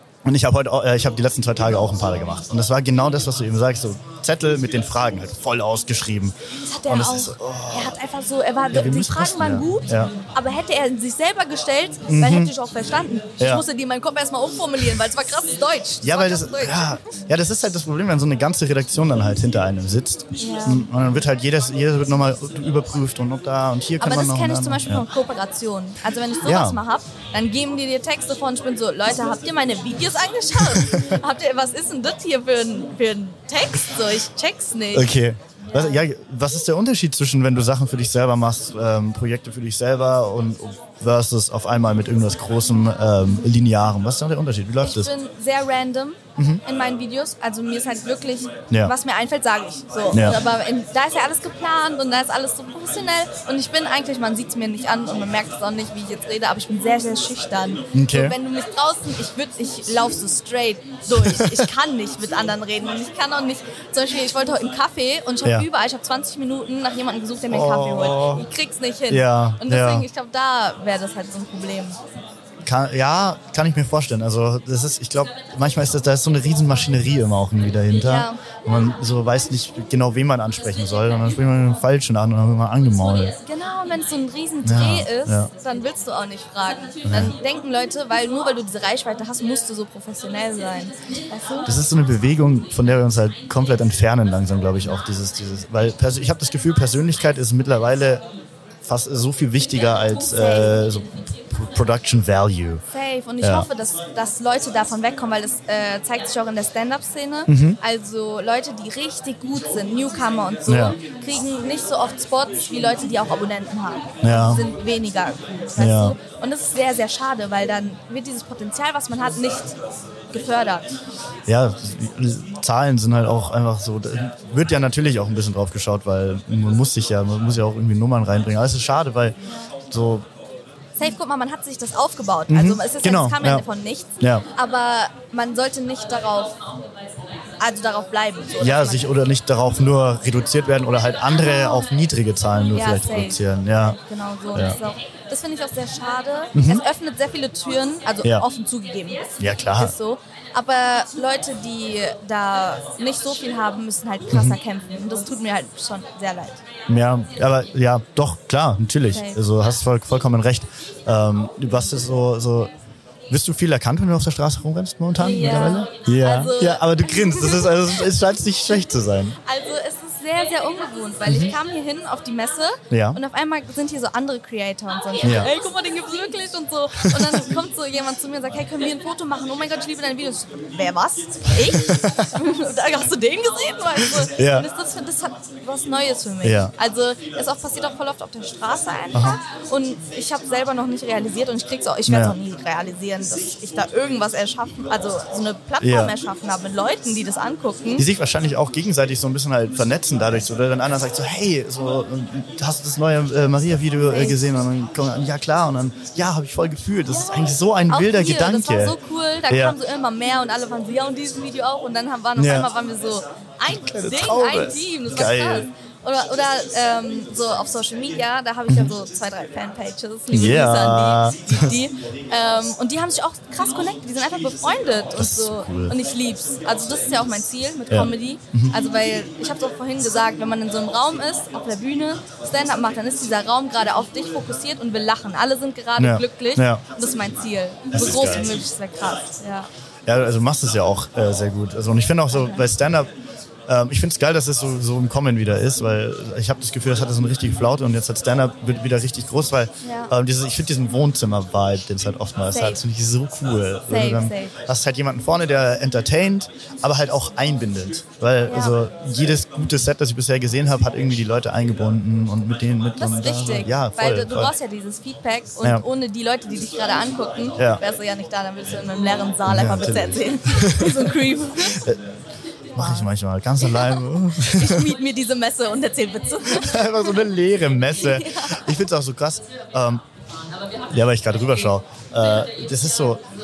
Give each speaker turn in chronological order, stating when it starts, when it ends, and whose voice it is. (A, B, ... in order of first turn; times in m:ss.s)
0:00.2-0:08.0 A
0:06.6-0:17.1 B
0:08.7-0:10.1 A
0:12.1-0:12.5 A
0:13.4-0:13.6 A
0:16.0-0:25.0 A
0:20.4-0:20.9 B
0:24.0-0:35.1 B
0:26.4-0:26.8 A
0:30.6-0:31.2 A
0:34.9-0:45.1 A
0:44.8-1:12.0 B
0:46.4-0:46.6 A
0:50.1-0:50.4 A
0:57.9-0:58.4 A
1:01.1-1:01.7 A
1:07.5-1:08.5 A
1:09.1-1:10.1 A
1:12.6-1:23.4 A
1:18.0-1:18.4 B
1:23.1-1:31.7 B
1:24.6-1:25.5 A
1:27.0-1:27.4 A
1:31.6-1:38.2 A
1:38.8-1:42.8 A
1:40.1-1:40.8 B
1:42.9-1:59.8 B
1:43.4-1:43.7 A
1:47.5-1:47.8 A
1:50.7-1:51.0 A
1:54.2-1:54.7 A
1:55.8-1:56.2 A
2:00.3-2:00.9 B
2:01.5-2:10.3 A
2:11.0-2:16.6 B
2:12.5-2:13.7 A
2:14.2-2:14.5 A
2:17.6-2:19.1 B
2:18.6-2:24.0 A
2:22.7-2:36.6 B
2:26.5-2:26.8 A
2:29.4-2:30.0 A
2:34.3-2:34.6 A
2:36.9-2:42.7 A
2:39.1-2:39.4 B
2:43.3-2:49.4 A
2:45.2-2:48.1 B
2:49.4-3:18.1 B
2:51.3-2:51.5 A
2:52.9-2:53.2 A
2:55.2-2:55.5 A
2:57.0-2:57.4 A
3:01.6-3:02.3 A
3:04.2-3:04.7 A
3:06.4-3:06.7 A
3:09.1-3:09.4 A
3:12.1-3:12.4 A
3:15.8-3:16.2 A
3:18.0-3:29.0 A
3:24.0-3:24.4 B
3:27.1-3:59.7 B
3:29.5-3:29.8 A
3:32.4-3:32.7 A
3:33.7-3:35.7 A
3:38.7-3:38.9 A
3:40.3-3:41.8 A
3:45.2-3:46.0 A
3:47.9-3:48.7 A
3:56.0-3:56.8 A
3:57.9-3:58.6 A
4:00.1-4:03.1 A
4:02.3-4:02.6 B
4:03.7-4:24.5 A
4:09.8-4:10.1 B
4:12.5-4:12.8 B
4:13.9-4:14.6 B
4:18.5-4:18.8 B
4:23.0-4:31.8 B
4:27.6-4:27.8 A
4:29.4-4:32.0 A
4:32.7-4:34.9 A
4:32.8-4:33.1 B
4:33.6-4:37.2 B
4:36.5-4:40.0 A
4:38.0-4:38.7 B
4:40.9-4:43.2 A